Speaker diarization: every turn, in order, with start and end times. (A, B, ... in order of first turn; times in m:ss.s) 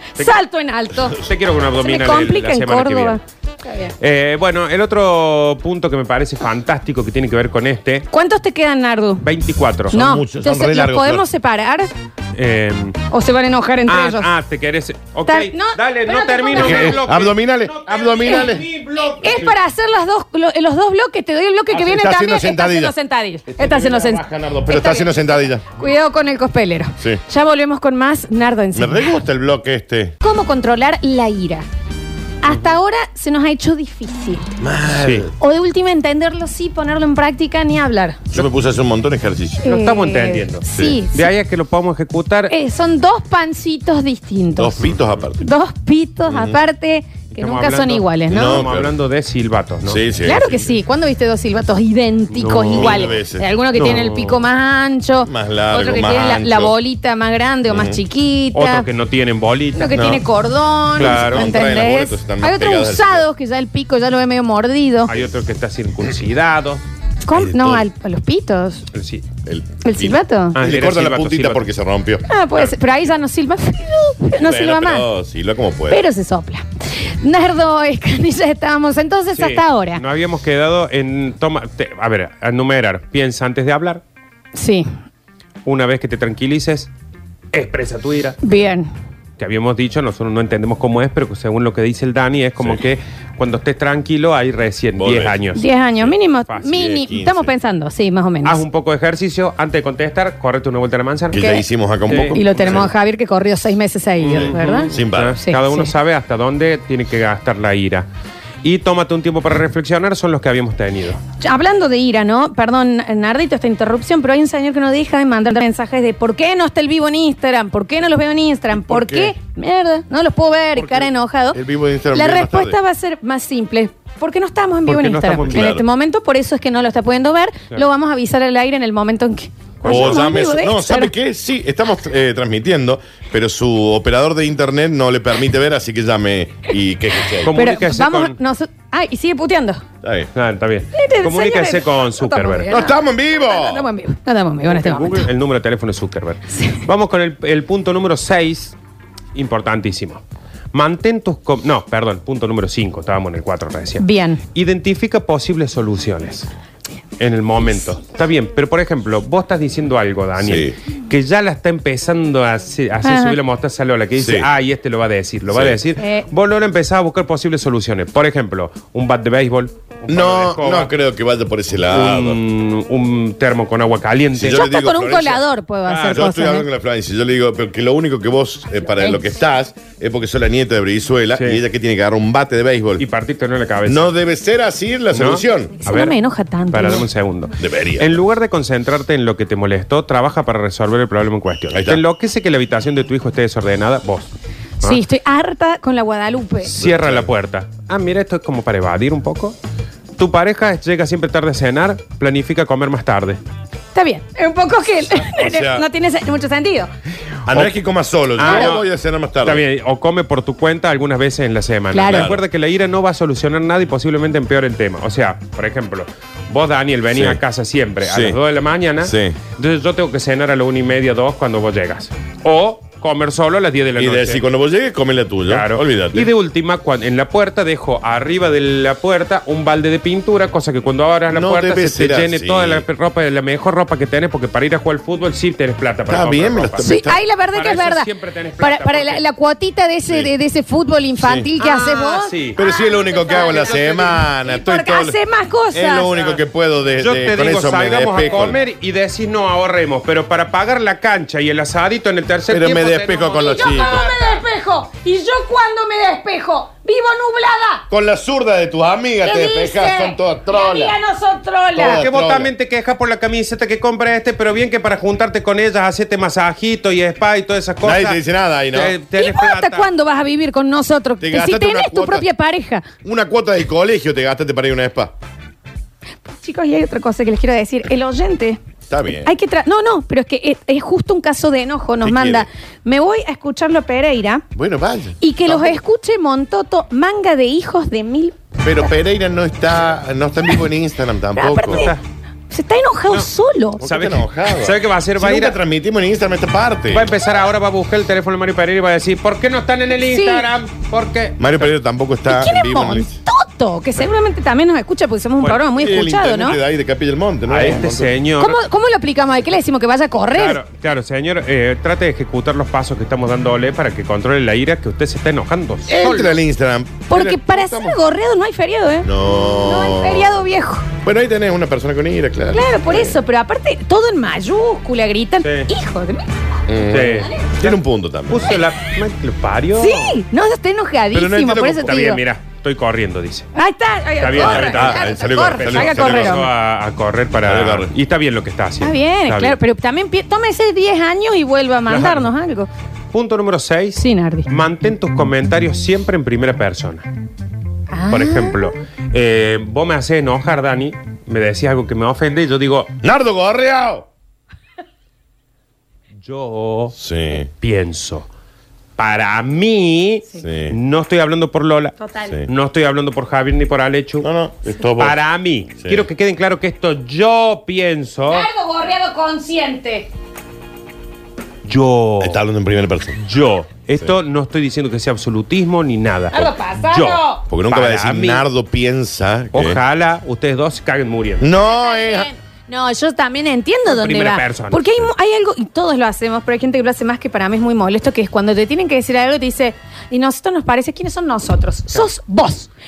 0:00.2-0:01.2 A
0:01.1-0:03.2 B
0:01.8-0:03.9 A
0:04.0-0:08.1 B
0:08.1-0:09.2 A
0:09.2-0:10.0 B
0:09.9-0:11.2 C
0:09.9-0:11.9 A
0:12.4-0:13.0 B
0:13.1-0:14.3 A
0:13.9-0:19.5 B
0:15.3-0:17.0 A
0:16.5-0:18.7 C
0:18.2-0:18.5 A
0:19.2-0:25.1 A
0:21.7-0:22.9 C
0:23.5-0:25.6 C
0:25.7-0:29.2 A
0:28.7-0:30.1 C
0:30.2-0:31.6 A
0:32.4-0:34.5 A
0:34.6-0:35.3 C
0:35.0-0:35.3 B
0:35.4-0:38.2 A
0:38.3-0:39.7 C
0:39.6-0:41.3 A
0:39.6-0:42.6 B
0:40.8-0:41.0 C
0:42.5-0:44.9 A
0:44.6-0:45.5 C
0:45.4-0:48.6 A
0:46.3-0:46.6 C
0:47.4-0:50.0 B
0:48.3-0:48.9 C
0:49.8-0:50.7 C
0:50.2-0:58.9 A
0:52.3-0:53.1 B
0:52.6-0:53.5 C
0:53.8-0:54.4 B
0:55.2-0:56.8 C
0:57.7-0:58.0 C
0:58.5-1:00.0 B
0:59.8-1:05.1 A
0:59.9-1:00.2 C
1:00.9-1:03.2 C
1:01.0-1:01.6 B
1:05.1-1:06.8 B
1:07.2-1:08.8 A
1:07.3-1:07.8 C
1:08.9-1:09.3 B
1:09.4-1:12.2 C
1:09.8-1:10.6 A
1:10.5-1:11.7 B
1:12.3-1:15.1 A
1:14.4-1:16.0 C
1:15.9-1:20.0 A
1:19.4-1:24.0 B
1:24.6-1:24.9 A
1:25.6-1:26.9 B
1:27.5-1:28.4 B
1:28.4-1:28.9 A
1:29.4-1:36.7 B
1:35.0-1:35.4 C
1:35.5-1:38.6 A
1:36.6-1:37.5 C
1:38.4-1:41.5 B
1:41.3-1:42.9 C
1:41.4-1:41.6 A
1:42.1-1:42.9 B
1:42.3-1:45.9 A
1:44.2-1:48.1 B
1:44.4-1:45.4 C
1:48.6-1:51.2 B
1:51.4-2:01.6 A
1:58.7-1:59.4 C
2:00.8-2:02.8 C
2:02.1-2:11.1 A
2:04.9-2:05.8 B
2:05.4-2:05.8 C
2:09.8-2:10.3 B
2:09.8-2:17.5 C
2:17.4-2:18.4 B
2:17.5-2:19.8 A
2:20.0-2:20.3 C
2:20.4-2:22.7 B
2:20.9-2:25.3 A
2:22.7-2:23.9 C
2:24.6-2:28.8 B
2:26.5-2:26.8 A
2:29.3-2:30.2 B
2:30.7-2:36.5 B
2:34.0-2:34.4 A
2:37.2-2:50.9 B
2:40.4-2:40.8 C
2:43.0-2:43.4 A
2:44.1-2:44.5 C
2:45.5-2:45.8 C
2:46.0-2:46.3 A
2:50.1-2:52.4 C
2:51.9-2:54.7 B
2:54.4-2:55.4 C
2:54.5-2:56.7 A
2:55.9-2:56.3 B
2:56.1-3:03.1 C
3:01.4-3:01.6 B
3:03.0-3:04.1 B
3:03.8-3:05.8 C
3:05.1-3:06.2 B
3:05.8-3:07.1 A
3:06.7-3:14.3 B
3:07.6-3:08.2 C
3:11.7-3:12.0 C
3:14.8-3:16.7 A
3:16.6-3:19.6 B
3:16.8-3:17.3 C
3:20.2-3:23.4 B
3:23.9-3:26.9 A
3:25.1-3:25.8 C
3:27.5-3:29.6 C
3:27.5-3:27.7 B
3:28.4-3:28.9 B
3:28.4-3:28.7 A
3:29.4-3:44.4 B
3:31.9-3:32.3 A
3:32.0-3:32.4 C
3:37.1-3:37.4 C
3:38.0-3:38.4 C
3:39.0-3:39.4 C
3:44.0-3:46.3 C
3:45.5-3:57.0 B
3:51.3-3:52.8 C
3:56.1-3:57.2 C
3:56.8-3:58.1 A
3:57.5-3:59.2 B
3:58.6-4:03.9 A
4:01.2-4:01.5 C
4:01.6-4:02.6 B
4:02.6-4:05.2 C
4:03.3-4:04.2 B
4:04.4-4:06.1 A
4:05.7-4:08.6 C
4:06.0-4:06.4 B
4:07.0-4:14.1 B
4:12.5-4:14.1 C
4:13.4-4:17.9 A
4:17.9-4:20.9 C
4:19.2-4:22.0 A
4:21.8-4:22.5 C
4:22.0-4:29.9 B
4:27.8-4:29.0 C
4:29.2-4:32.9 A
4:31.2-4:32.3 C
4:33.0-4:35.1 C
4:36.3-4:38.6 A
4:38.9-4:39.3 C
4:39.2-4:44.4 A
4:42.0-4:42.5 C
4:44.5-4:45.8 C
4:45.2-4:48.4 A
4:48.6-4:51.9 C
4:51.4-4:52.0 A
4:51.7-4:52.0 B
4:52.5-4:53.8 A
4:53.8-4:57.1 C
4:53.8-4:55.6 B
4:56.9-5:01.7 B
5:00.1-5:00.5 A
5:01.4-5:03.1 C
5:02.3-5:06.6 A
5:05.7-5:08.1 C
5:07.5-5:08.6 B
5:08.4-5:10.6 A
5:10.3-5:16.3 B
5:15.9-5:18.0 C
5:17.1-5:19.1 A
5:19.0-5:20.4 C
5:19.6-5:20.9 A
5:21.0-5:23.2 C
5:22.5-5:26.3 A
5:25.4-5:25.7 B
5:26.7-5:28.6 C
5:26.9-5:27.8 B
5:27.2-5:27.4 A
5:28.3-5:30.2 B
5:29.8-5:32.2 A
5:31.1-5:32.0 C
5:31.8-5:33.5 B
5:33.6-5:36.4 A
5:34.2-5:39.6 B
5:34.4-5:36.5 C
5:37.4-5:37.9 C
5:38.8-5:42.7 A
5:41.9-5:42.3 B
5:43.1-5:47.1 B
5:44.0-5:44.5 A
5:47.9-5:48.6 A
5:48.1-5:52.9 B
5:53.0-5:54.1 C
5:56.2-5:56.9 B
5:57.0-5:57.5 C
5:57.6-5:58.3 B
5:59.0-6:04.3 B
6:00.4-6:00.8 C
6:02.0-6:02.4 A
6:04.2-6:05.2 C
6:05.0-6:08.5 B
6:05.8-6:06.1 C
6:08.3-6:10.1 A
6:11.6-6:12.4 B
6:12.2-6:13.2 C
6:13.2-6:18.4 B
6:16.3-6:17.4 A
6:17.5-6:19.8 C
6:19.5-6:21.5 B
6:21.4-6:22.3 C
6:21.6-6:32.7 A
6:23.9-6:25.0 B